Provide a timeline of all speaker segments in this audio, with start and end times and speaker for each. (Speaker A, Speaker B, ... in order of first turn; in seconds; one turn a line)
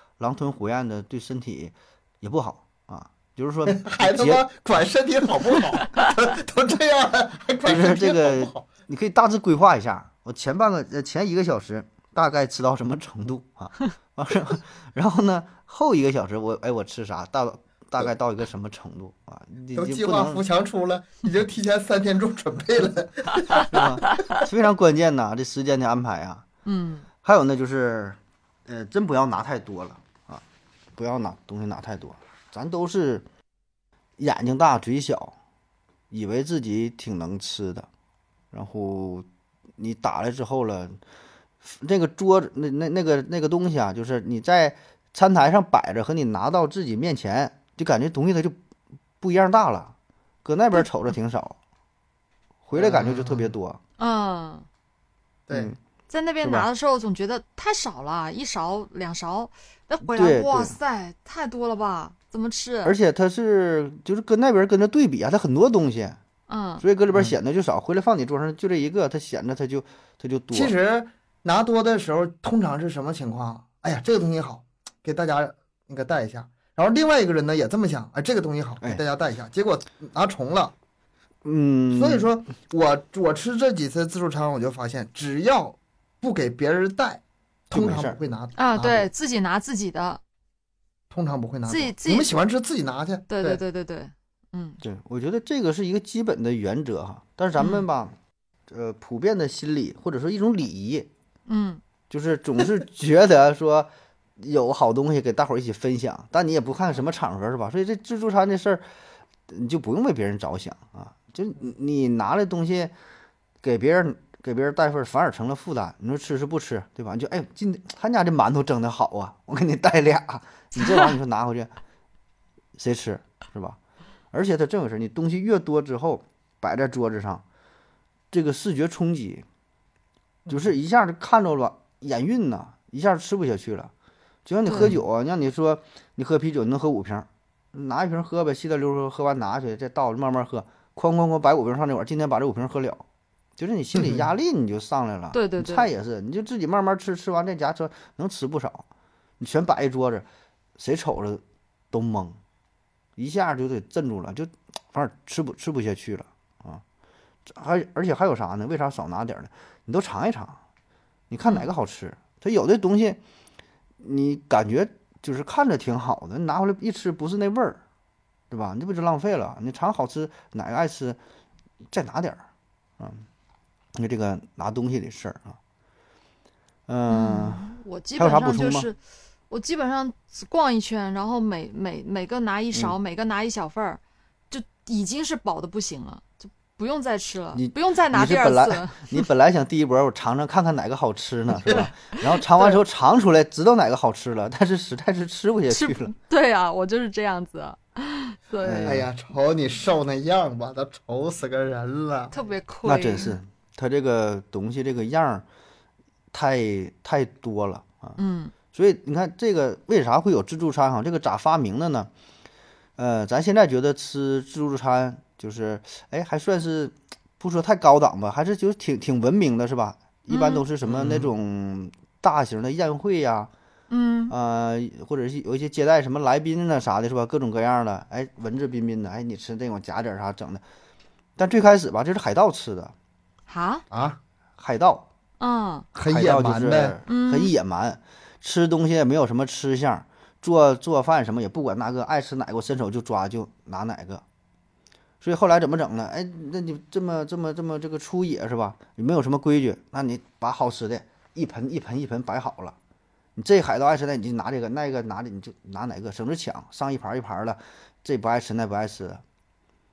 Speaker A: 0.2-4.4
Speaker B: 3.7-8.7
Speaker A: 7.6-20.4
Speaker B: 19.7-23.8
Speaker A: 23.6-26.4
Speaker C: 24.1-24.4
Speaker C: 26.6-27.1
Speaker A: 27.2-30.4
Speaker A: 30.9-33.3
Speaker A: 34.2-35.4
Speaker A: 36.1-37.9
Speaker A: 38.5-39.2
Speaker A: 39.8-41.0
Speaker A: 41.6-48.6
Speaker A: 49.2-51.6
Speaker A: 52.6-53.8
Speaker B: 52.7-53.5
Speaker C: 54.0-54.6
Speaker B: 55.5-55.7
Speaker A: 55.5-55.8
Speaker C: 56.1-63.0
Speaker A: 56.4-56.7
Speaker A: 60.0-60.8
Speaker A: 62.8-66.2
Speaker C: 66.5-66.8
Speaker A: 66.8-70.7
Speaker B: 67.1-67.3
Speaker B: 70.5-80.7
Speaker A: 81.4-82.3
Speaker B: 81.9-89.1
Speaker A: 87.7-88.2
Speaker C: 88.5-90.2
Speaker B: 91.1-93.6
Speaker C: 91.7-92.3
Speaker C: 93.3-94.8
Speaker A: 94.8-98.1
Speaker C: 97.6-97.8
Speaker A: 98.7-101.1
Speaker C: 101.5-101.8
Speaker A: 102.1-108.8
Speaker A: 109.5-112.9
Speaker A: 113.6-121.7
Speaker A: 122.8-123.8
Speaker A: 124.3-127.4
Speaker A: 128.3-129.4
Speaker A: 130.5-133.9
Speaker A: 134.4-143.0
Speaker C: 134.7-134.9
Speaker A: 143.6-148.8
Speaker C: 145.3-145.9
Speaker A: 149.4-150.2
Speaker A: 150.8-152.4
Speaker A: 153.2-156.8
Speaker A: 157.4-160.6
Speaker A: 161.3-163.2
Speaker A: 164.0-167.8
Speaker A: 168.5-171.2
Speaker A: 171.9-172.4
Speaker A: 173.0-173.2
Speaker A: 173.9-175.6
Speaker A: 176.9-178.9
Speaker C: 177.1-179.0
Speaker C: 179.5-189.3
Speaker A: 187.5-196.1
Speaker C: 195.7-199.0
Speaker A: 198.6-199.1
Speaker B: 198.8-202.3
Speaker C: 202.3-203.3
Speaker A: 202.8-205.4
Speaker A: 206.3-208.2
Speaker C: 208.2-208.5
Speaker A: 208.7-212.1
Speaker A: 213.0-223.5
Speaker C: 220.3-220.6
Speaker B: 220.8-221.3
Speaker C: 223.9-224.3
Speaker A: 224.3-230.6
Speaker A: 231.4-232.9
Speaker C: 233.5-233.8
Speaker B: 233.9-234.2
Speaker A: 234.6-235.1
Speaker C: 235.4-235.9
Speaker B: 235.9-237.0
Speaker A: 236.0-244.2
Speaker C: 237.1-237.5
Speaker A: 245.2-252.8
Speaker A: 253.3-259.2